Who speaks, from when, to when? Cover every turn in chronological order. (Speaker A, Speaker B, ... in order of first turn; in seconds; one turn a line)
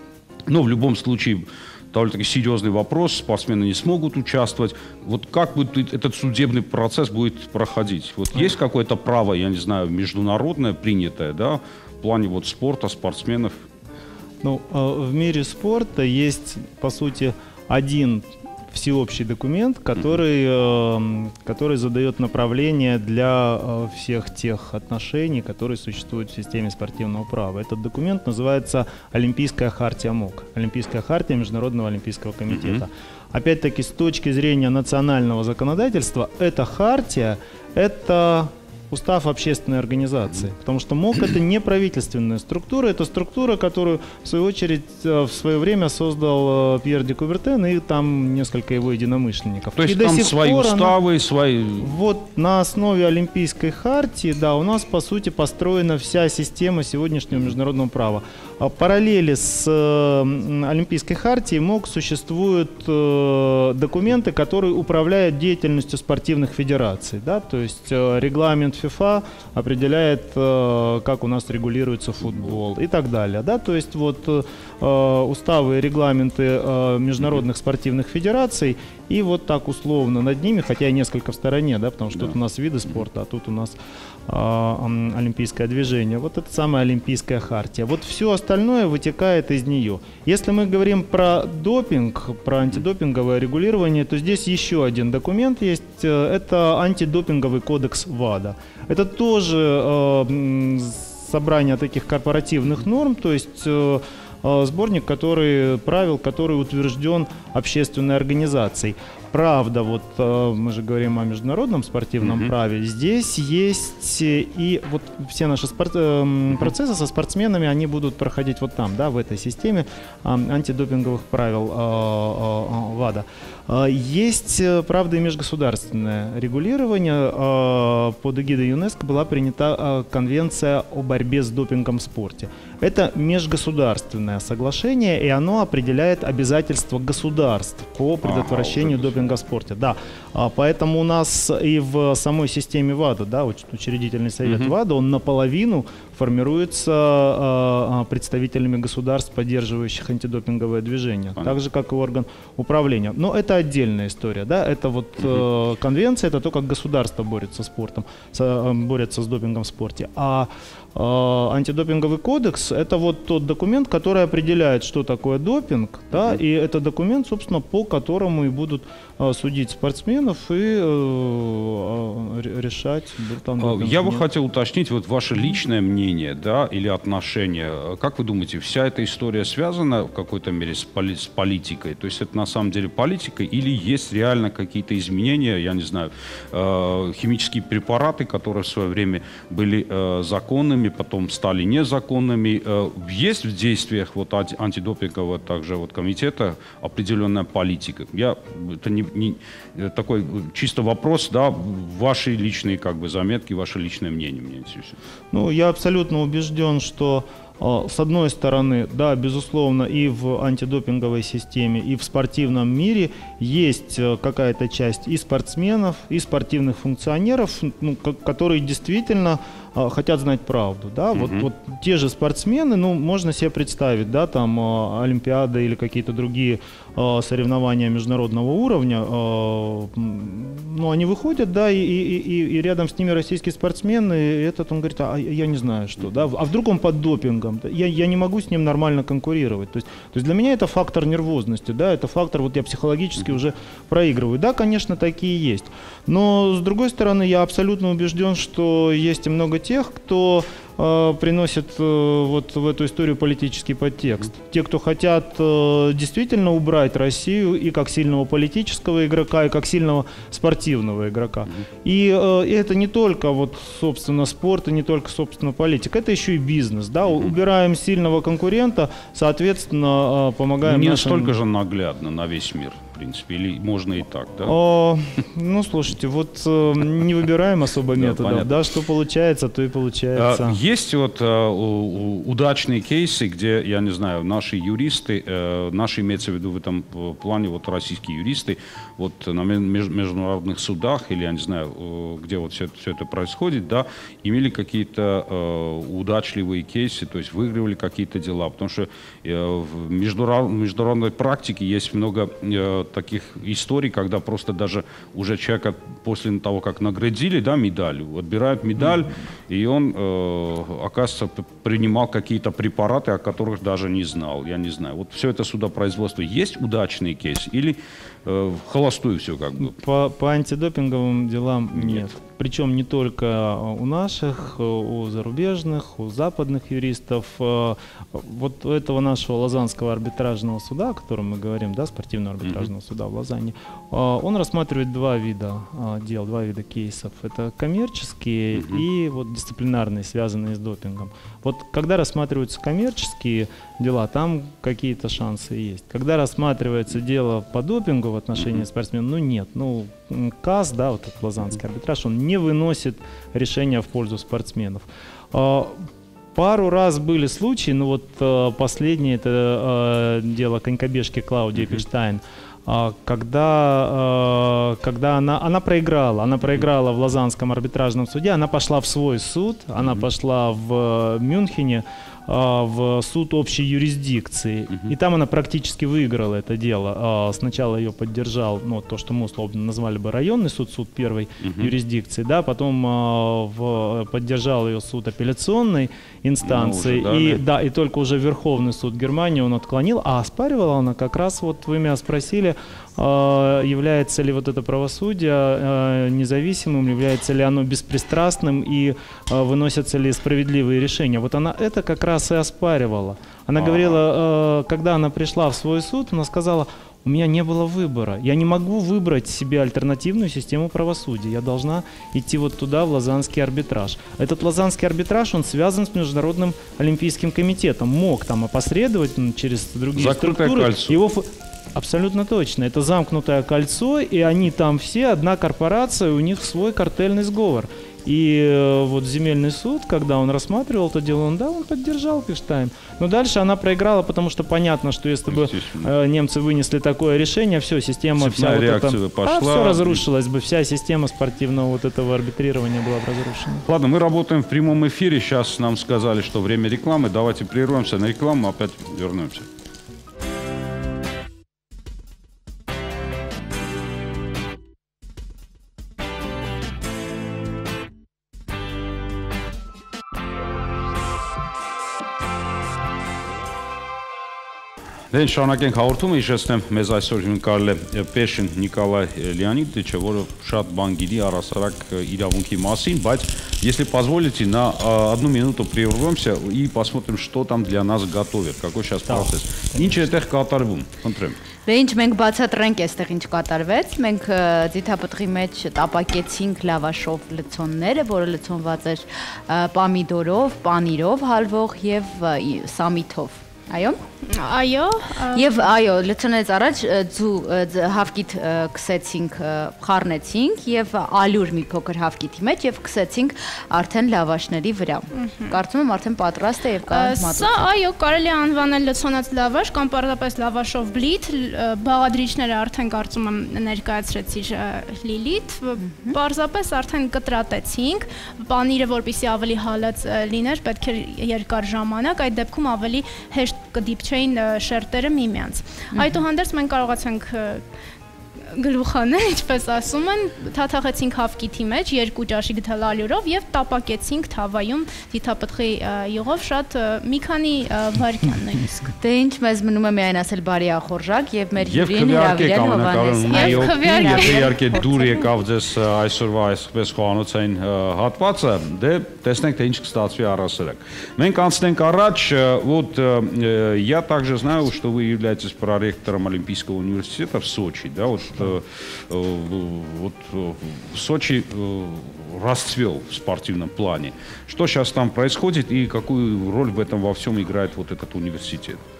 Speaker A: 0.5-13.6
Speaker B: 14.4-51.0
Speaker A: 32.5-32.8
Speaker A: 49.8-51.9
Speaker B: 51.8-83.8
Speaker B: 84.3-174.2
Speaker A: 112.2-112.5
Speaker A: 138.2-139.3
Speaker A: 144.4-144.7
Speaker A: 155.2-155.4
Speaker A: 166.1-166.4
Speaker A: 173.6-205.0
Speaker B: 205.3-271.3
Speaker A: 221.1-221.5
Speaker A: 267.1-267.3
Speaker A: 270.6-274.6
Speaker B: 274.5-280.6
Speaker A: 277.9-278.6
Speaker A: 280.1-319.7
Speaker B: 319.6-443.7
Speaker A: 321.7-322.1
Speaker A: 332.4-332.7
Speaker A: 338.5-338.8
Speaker A: 348.4-348.6
Speaker A: 361.6-361.8
Speaker A: 369.8-370.1
Speaker A: 381.4-381.7
Speaker A: 386.4-387.4
Speaker A: 403.6-404.0
Speaker A: 419.9-421.0
Speaker A: 435.3-435.9
Speaker A: 438.2-440.0
Speaker A: 443.7-449.5
Speaker A: 465.1-481.4
Speaker B: 479.1-480.0
Speaker C: 481.7-494.0
Speaker D: 494.2-495.6
Speaker C: 495.3-507.6
Speaker D: 505.1-505.6
Speaker D: 506.9-527.7
Speaker C: 515.8-516.2
Speaker C: 525.9-526.2
Speaker D: 528.4-539.0
Speaker C: 539.0-544.9
Speaker A: 541.6-568.8
Speaker D: 543.3-545.1